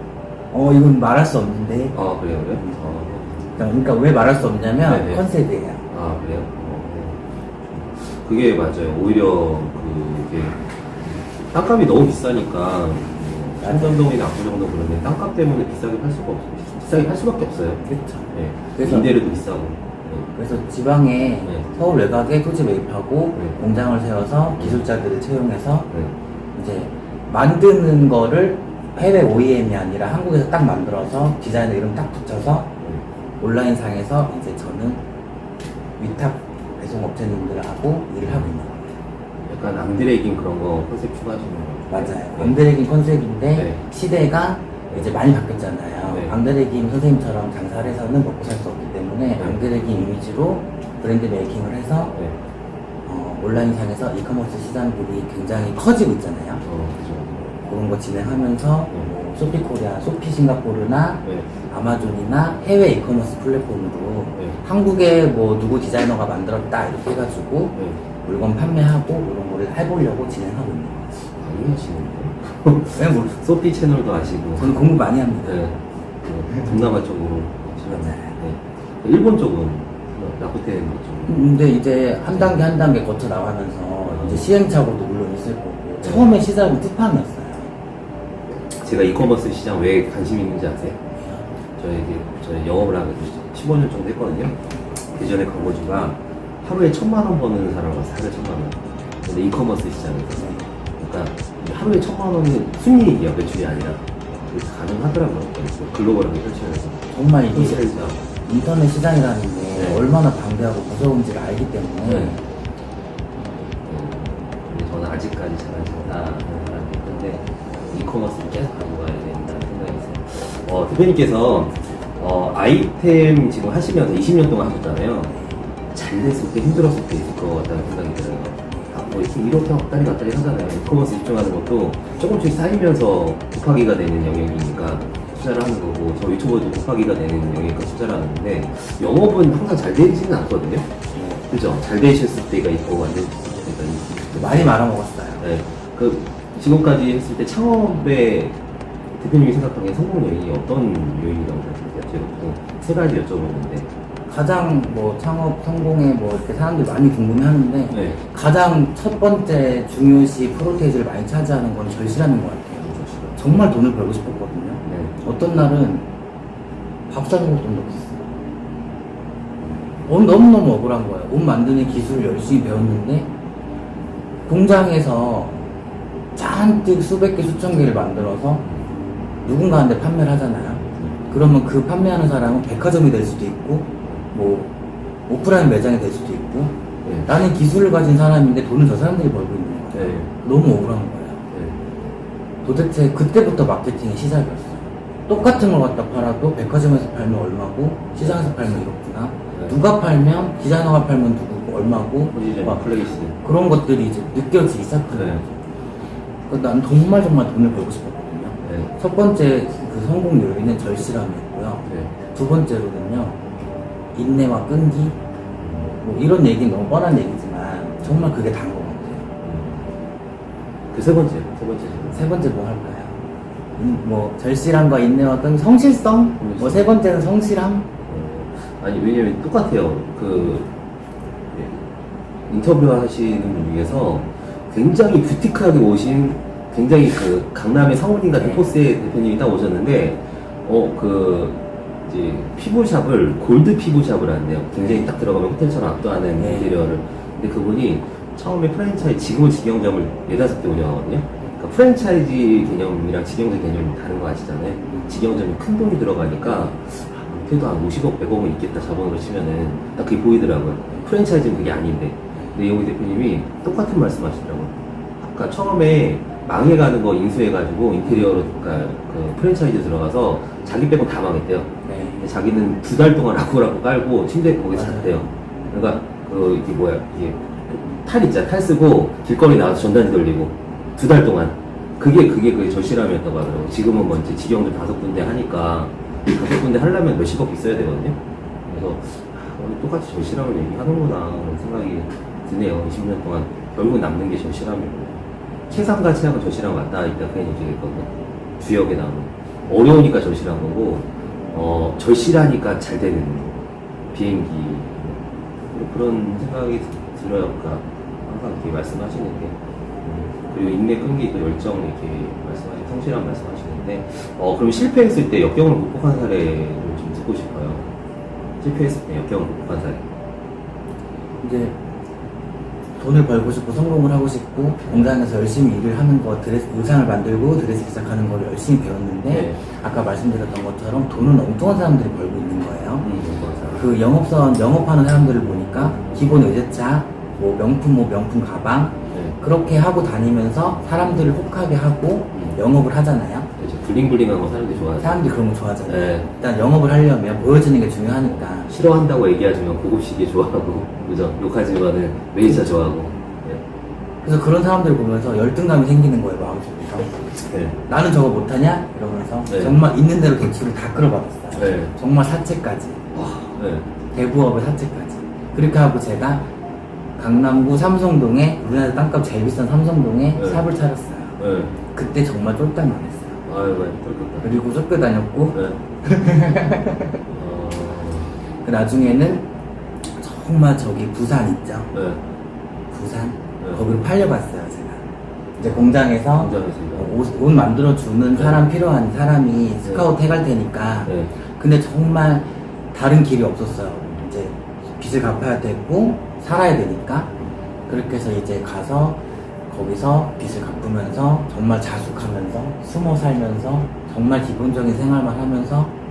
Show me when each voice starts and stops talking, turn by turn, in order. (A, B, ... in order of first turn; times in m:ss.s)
0:00.5-0:01.9 A
0:01.9-0:03.6 B
0:03.6-0:05.8 A
0:04.9-0:05.2 B
0:05.9-0:17.8 B
0:13.6-0:14.1 A
0:17.8-0:19.1 A
0:18.3-0:20.3 B
0:20.3-0:25.9 A
0:24.6-0:24.8 B
0:26.5-0:32.7 A
0:33.4-0:35.0 A
0:36.0-0:39.0 A
0:39.5-0:42.6 B
0:41.9-0:52.1 A
0:43.5-0:43.8 B
0:53.0-0:56.6 A
0:56.6-0:57.5 B
0:57.6-1:11.1 A
1:11.4-1:14.9 B
1:13.0-1:13.3 A
1:14.6-1:15.6 A
1:15.4-1:21.3 B
1:18.0-1:18.3 A
1:21.3-1:27.7 A
1:24.1-1:24.4 B
1:28.7-1:31.0 B
1:31.2-1:31.4 A
1:31.8-1:34.6 B
1:35.1-1:48.2 B
1:40.4-1:40.7 A
1:47.1-1:52.4 A
1:49.8-1:50.0 B
1:52.0-1:52.4 B
1:53.8-2:05.4 B
2:05.9-2:20.9 B
2:21.1-2:21.5 A
2:21.5-2:24.7 B
2:24.4-2:25.4 A
2:25.4-2:28.6 B
2:29.1-2:33.9 B
2:34.3-2:46.0 A
2:37.9-2:38.2 B
2:42.8-2:43.6 B
2:44.8-2:45.1 B
2:47.1-2:48.2 A
2:50.0-2:53.3 A
2:54.4-2:55.6 A
2:56.3-2:58.6 A
2:59.4-3:04.7 A
3:00.9-3:01.2 B
3:05.3-3:06.7 A
3:07.2-3:11.4 A
3:09.9-3:10.3 B
3:11.5-3:11.8 B
3:12.6-3:22.9 A
3:15.4-3:15.6 B
3:18.2-3:18.6 B
3:22.3-3:23.4 B
3:23.4-3:25.4 A
3:25.1-3:25.4 B
3:26.5-3:33.4 A
3:28.6-3:28.9 B
3:34.1-3:35.2 A
3:35.6-3:35.9 B
3:36.0-3:39.3 A
3:39.4-3:39.9 B
3:40.9-3:42.2 B
3:42.1-3:43.2 A
3:43.8-3:47.9 A
3:46.4-3:46.9 B
3:48.0-3:50.7 B
3:51.5-3:51.8 B
3:52.5-5:03.6 B
4:04.8-4:05.1 A
4:06.4-4:06.7 A
4:31.8-4:32.2 A
4:34.7-4:35.3 A
5:04.1-5:05.2 B
5:05.7-5:17.9 B
5:18.6-5:20.0 B
5:21.4-5:21.8 A
5:23.0-5:33.0 A
5:29.3-5:29.6 B
5:33.0-5:33.8 B
5:33.8-5:43.5 A
5:39.1-5:39.4 B
5:42.3-5:42.6 B
5:43.6-5:45.3 B
5:45.0-5:48.7 A
5:45.8-5:46.3 B
5:48.7-5:53.6 B
5:54.2-5:57.3 A
5:57.5-5:57.8 B
5:57.9-6:03.0 A
5:59.5-5:59.8 B
6:01.5-6:01.9 B
6:03.1-6:03.9 B
6:04.1-6:06.5 A
6:07.2-6:11.4 A
6:10.4-6:10.6 B
6:11.4-6:11.8 B
6:11.9-6:13.4 A
6:13.5-6:14.5 B
6:14.4-6:17.2 A
6:17.2-6:18.3 B
6:18.6-6:19.4 A
6:20.2-6:21.9 A
6:21.9-6:22.2 B
6:22.9-6:25.0 A
6:25.6-6:37.3 A
6:26.4-6:27.1 B
6:28.4-6:28.7 B
6:31.0-6:31.3 B
6:37.9-6:45.9 A